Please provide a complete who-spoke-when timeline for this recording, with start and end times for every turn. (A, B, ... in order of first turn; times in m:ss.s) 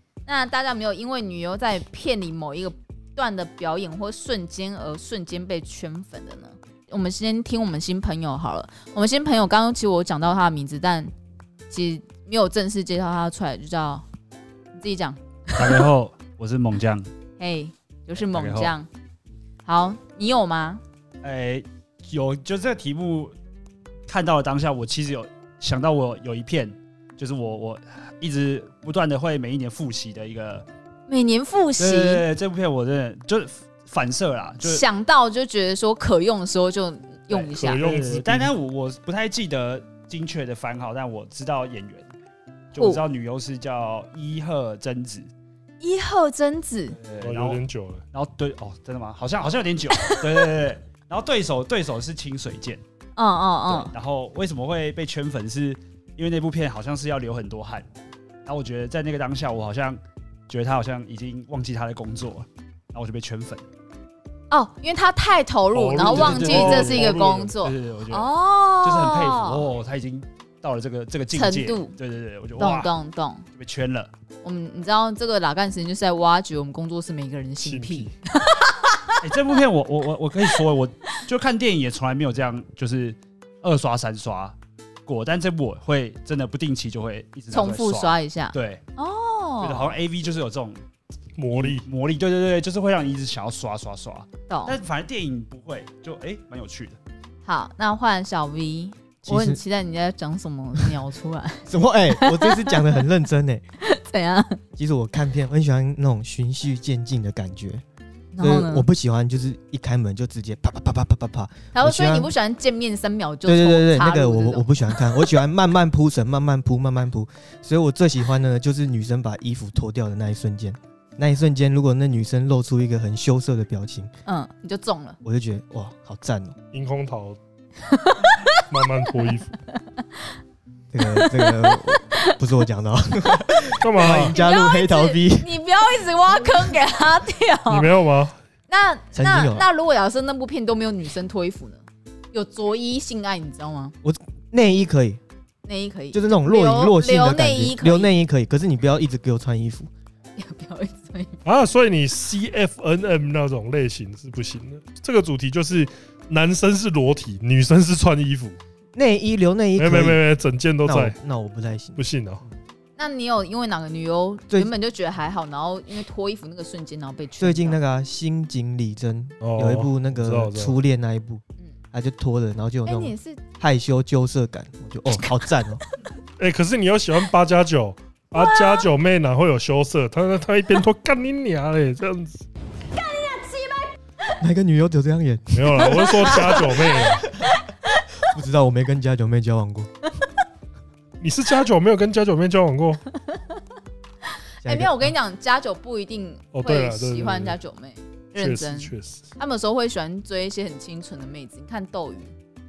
0:00.3-0:11.1 A
0:11.7-0:14.0 A
0:14.7-0:15.8 A
0:15.6-0:17.1 B
0:17.4-0:18.9 A
0:18.2-0:18.7 B
0:19.7-0:20.8 A
0:21.2-0:23.4 B
0:24.1-0:30.7 B
0:31.1-0:32.2 A
0:31.8-0:34.8 B
0:34.6-0:37.8 A
0:37.3-0:42.1 B
0:37.5-0:38.5 C
0:42.7-0:45.3 B
0:42.8-0:43.0 A
0:45.8-0:47.0 A
0:46.9-0:47.6 B
0:47.2-0:48.0 C
0:48.1-0:52.8 B
0:50.0-0:50.3 A
0:53.2-0:53.9 A
0:53.6-0:57.9 B
0:58.5-1:03.6 B
1:04.5-1:09.7 A
1:05.7-1:07.5 C
1:06.0-1:12.9 B
1:11.3-1:12.0 A
1:12.6-1:13.4 A
1:13.5-1:14.1 B
1:14.4-1:19.2 A
1:17.6-1:18.1 C
1:19.2-1:28.8 B
1:27.5-1:30.0 A
1:29.6-1:30.8 B
1:31.4-1:31.9 C
1:31.5-1:37.0 B
1:34.5-1:34.8 A
1:37.4-1:43.0 A
1:39.2-1:39.6 D
1:41.7-1:43.6 D
1:43.8-1:44.6 A
1:44.8-1:47.8 D
1:48.4-1:48.9 A
1:48.4-1:52.3 D
1:51.8-1:55.3 A
1:53.4-2:04.1 D
2:04.3-2:05.2 A
2:05.2-2:06.6 D
2:06.7-2:07.4 C
2:07.8-2:08.7 A
2:08.7-2:09.6 C
2:10.9-2:15.5 D
2:11.0-2:12.3 A
2:13.8-2:14.3 C
2:14.1-2:18.0 A
2:17.7-2:18.4 C
2:18.7-2:23.9 A
2:19.1-2:19.7 D
2:24.0-2:25.2 D
2:25.7-2:28.1 A
2:26.1-2:29.9 D
2:30.4-2:31.4 A
2:31.4-2:38.6 C
2:39.0-2:40.2 D
2:39.8-2:41.2 C
2:40.9-2:42.0 D
2:42.0-2:42.4 C
2:43.0-2:47.8 A
2:47.4-2:55.8 D
2:49.4-2:50.8 C
2:52.9-2:53.4 A
2:56.4-3:02.5 C
2:58.4-2:58.9 A
3:02.9-3:03.9 A
3:04.4-3:07.5 D
3:05.5-3:07.3 C
3:05.8-3:08.0 A
3:08.2-3:09.9 D
3:11.2-3:13.0 C
3:13.3-3:13.6 A
3:14.6-3:15.1 D
3:14.6-3:22.3 A
3:16.5-3:17.6 C
3:18.4-3:19.2 C